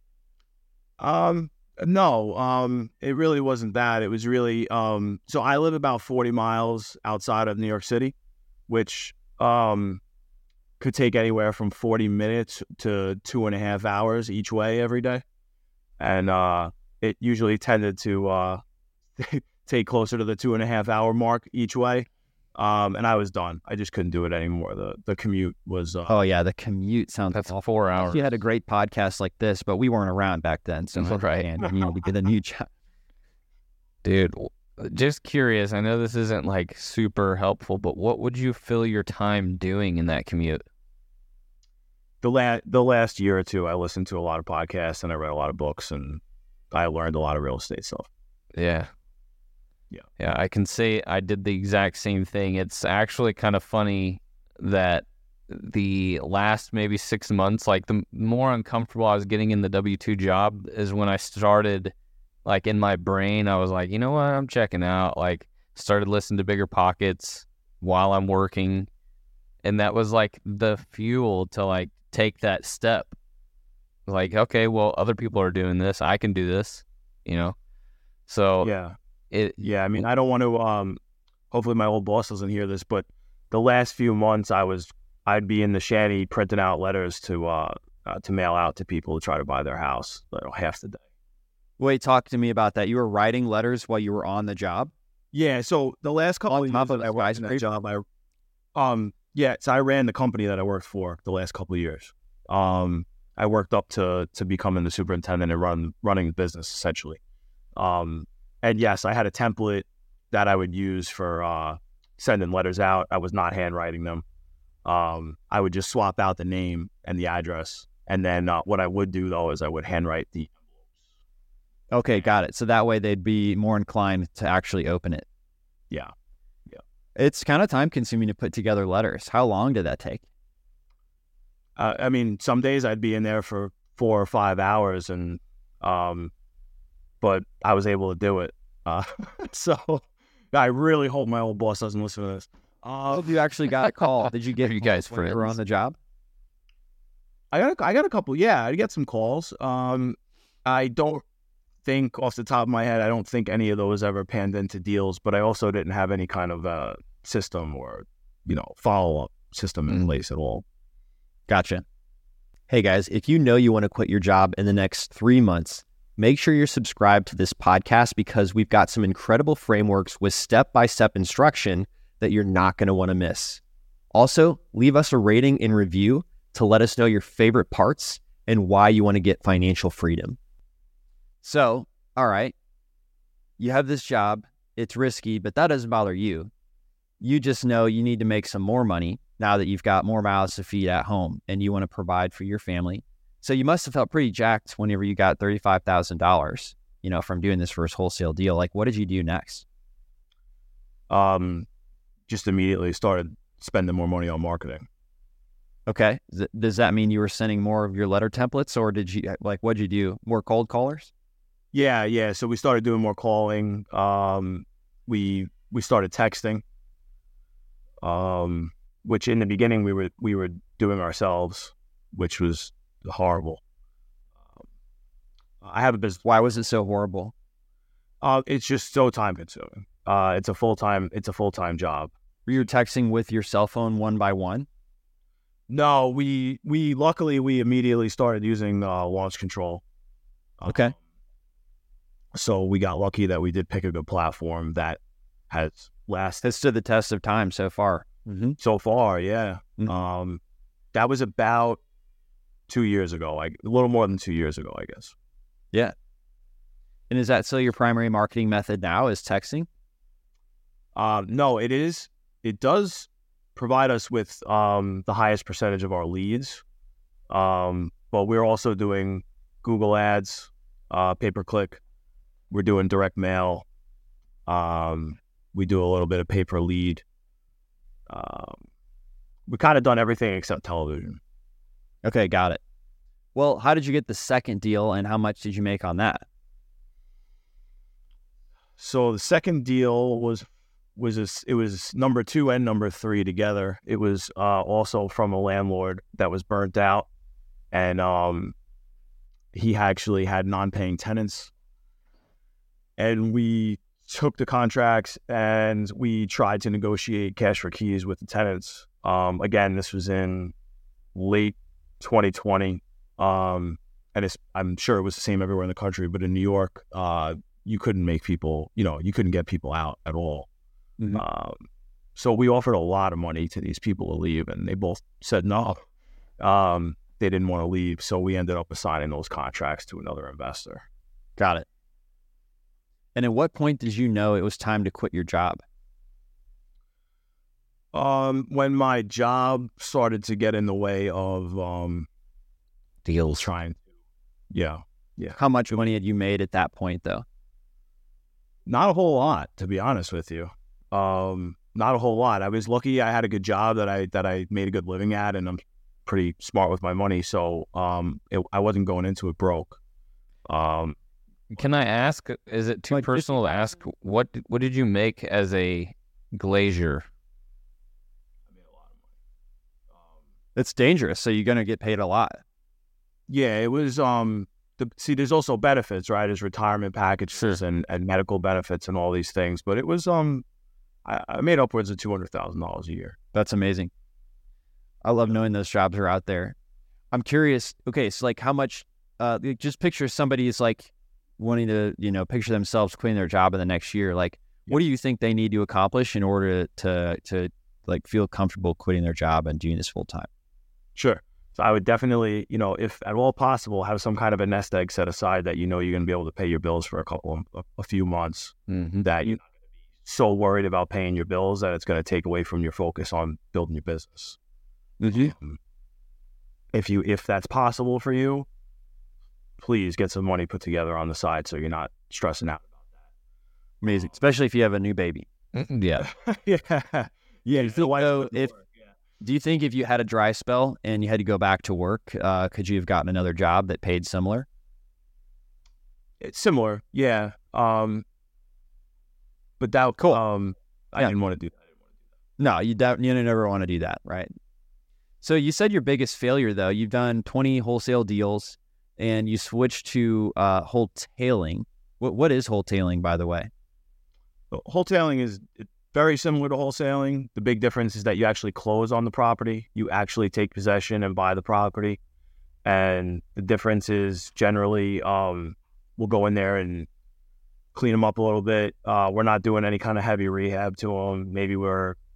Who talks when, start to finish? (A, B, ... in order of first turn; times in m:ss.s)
0:01.0-0:08.1 A
0:08.7-0:10.0 A
0:10.8-0:15.2 A
0:16.0-0:18.6 A
0:19.2-0:26.1 A
0:26.1-0:32.7 B
0:27.3-0:28.2 C
0:31.0-0:31.5 C
0:34.0-0:40.6 C
0:42.2-0:48.1 A
0:48.5-0:48.9 C
0:50.2-1:01.9 C
1:02.4-1:08.9 C
1:09.6-1:13.2 C
1:14.0-1:17.5 C
1:18.3-1:18.7 C
1:18.6-1:19.0 A
1:19.3-1:20.0 C
1:19.6-1:21.0 A
1:21.5-1:31.0 A
1:31.8-1:34.9 B
1:35.3-1:38.0 A
1:36.5-1:37.6 B
1:38.7-1:47.2 A
1:47.8-1:54.2 A
1:54.8-2:00.5 A
2:01.9-2:05.2 B
2:07.2-2:10.2 B
2:11.8-2:16.3 A
2:17.2-2:23.3 A
2:23.1-2:26.0 B
2:23.8-2:25.6 C
2:27.5-2:31.2 A
2:31.8-2:40.6 A
2:41.5-2:41.8 B
2:42.7-2:53.6 B
2:54.1-3:00.4 B
3:01.4-3:02.5 B
3:03.6-3:06.5 B
3:07.2-3:19.6 B
3:21.1-3:21.7 A
3:22.3-3:24.9 A
3:25.9-3:31.1 B
3:31.7-3:36.6 A
3:38.0-3:43.6 A
3:45.6-3:46.2 A
3:46.2-3:47.3 B
3:48.2-3:52.7 A
3:52.4-3:54.7 B
3:55.7-3:59.8 A
4:00.6-4:01.0 A
4:00.7-4:00.9 B
4:02.3-4:06.4 A
4:06.4-4:08.6 B
4:08.6-4:10.4 A
4:10.9-4:11.8 A
4:12.7-4:15.1 A
4:17.1-4:19.7 B
4:20.9-4:26.6 A
4:27.3-4:31.8 A
4:32.5-4:33.6 A
4:34.5-4:37.0 A
4:38.1-4:38.6 A
4:39.5-4:41.2 A
4:42.0-4:42.6 B
4:43.3-4:46.2 B
4:48.8-4:57.1 A
4:57.7-4:58.5 A
4:59.5-5:01.5 A
5:03.0-5:10.5 A
5:11.1-5:20.5 A
5:21.1-5:21.6 A
5:22.2-5:25.8 A
5:26.4-5:30.8 A
5:31.4-5:31.6 B
5:33.2-5:35.6 B
5:37.9-5:42.1 A
5:43.0-5:43.5 C
5:43.3-5:43.8 A
5:44.5-5:45.4 A
5:45.3-5:47.2 B
5:48.6-5:59.8 A
6:00.5-6:01.0 A
6:01.5-6:07.0 C
6:02.9-6:03.3 B
6:08.5-6:09.0 A
6:10.6-6:12.4 B
6:13.3-6:20.4 A
6:17.3-6:17.6 C
6:21.0-6:23.2 A
6:23.3-6:23.9 B
6:25.0-6:26.5 B
6:27.1-6:40.3 B
6:41.0-6:49.4 A
6:48.7-6:49.1 C
6:50.0-6:54.4 A
6:55.0-6:55.3 B
6:55.1-6:55.6 A
6:56.7-6:58.4 A
6:59.6-7:02.6 A
7:03.8-7:05.2 B
7:05.5-7:06.1 C
7:06.0-7:08.7 A
7:07.6-7:08.5 B
7:09.2-7:14.5 B
7:16.2-7:18.0 A
7:19.6-7:21.5 A
7:22.4-7:24.3 B
7:25.2-7:33.5 B
7:34.5-7:42.0 A
7:42.6-7:46.9 A
7:47.7-7:52.0 A